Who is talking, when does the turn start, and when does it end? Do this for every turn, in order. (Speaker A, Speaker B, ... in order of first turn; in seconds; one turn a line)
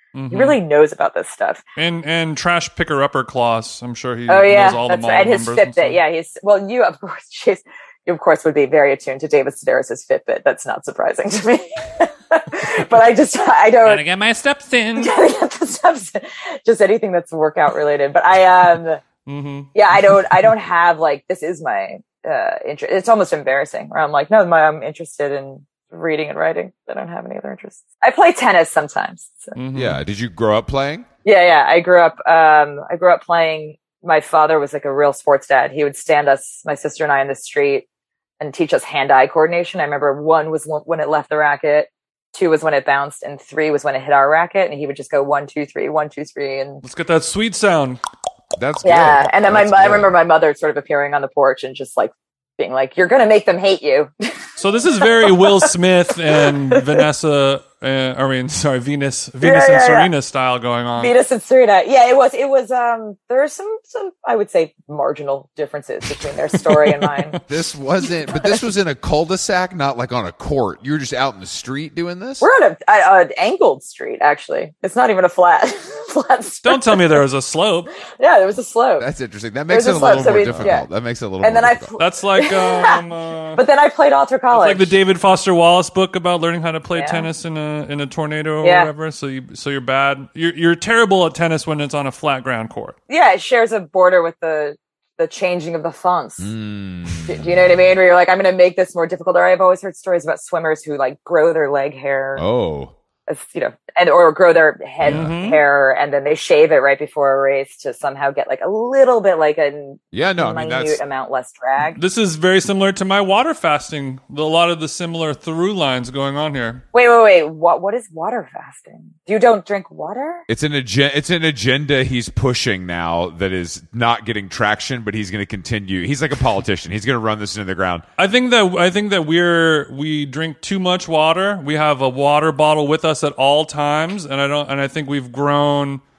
Speaker A: 0.1-0.6
Speaker B: 0.3-1.6
Speaker A: 1.8-6.0
Speaker B: 4.3-14.1
Speaker A: 13.8-15.1
Speaker B: 15.0-19.0
Speaker A: 19.2-19.7
Speaker B: 19.7-29.6
Speaker A: 29.6-30.0
Speaker C: 29.7-31.1
Speaker B: 31.2-37.9
Speaker B: 38.4-46.8
Speaker A: 46.8-48.0
Speaker C: 48.6-50.1
Speaker B: 48.8-55.7
Speaker A: 54.6-61.1
Speaker B: 56.2-57.1
Speaker B: 59.4-60.1
Speaker B: 61.0-67.4
Speaker A: 66.6-67.4
Speaker C: 67.5-72.5
Speaker B: 68.3-68.6
Speaker B: 72.4-77.2
Speaker A: 76.6-77.9
Speaker B: 78.1-79.1
Speaker C: 79.0-81.9
Speaker B: 79.7-80.9
Speaker A: 80.3-80.7
Speaker B: 81.4-83.0
Speaker A: 82.0-83.6
Speaker B: 83.5-85.0
Speaker A: 84.5-93.0
Speaker B: 87.0-87.3
Speaker B: 88.6-88.9
Speaker B: 93.1-96.5
Speaker C: 96.4-97.5
Speaker B: 97.2-102.4
Speaker C: 102.4-102.9
Speaker B: 103.3-112.0
Speaker A: 105.0-105.6
Speaker C: 105.0-105.3
Speaker C: 110.1-111.0
Speaker A: 111.9-116.8
Speaker B: 116.9-120.4
Speaker C: 120.5-128.1
Speaker A: 128.2-136.0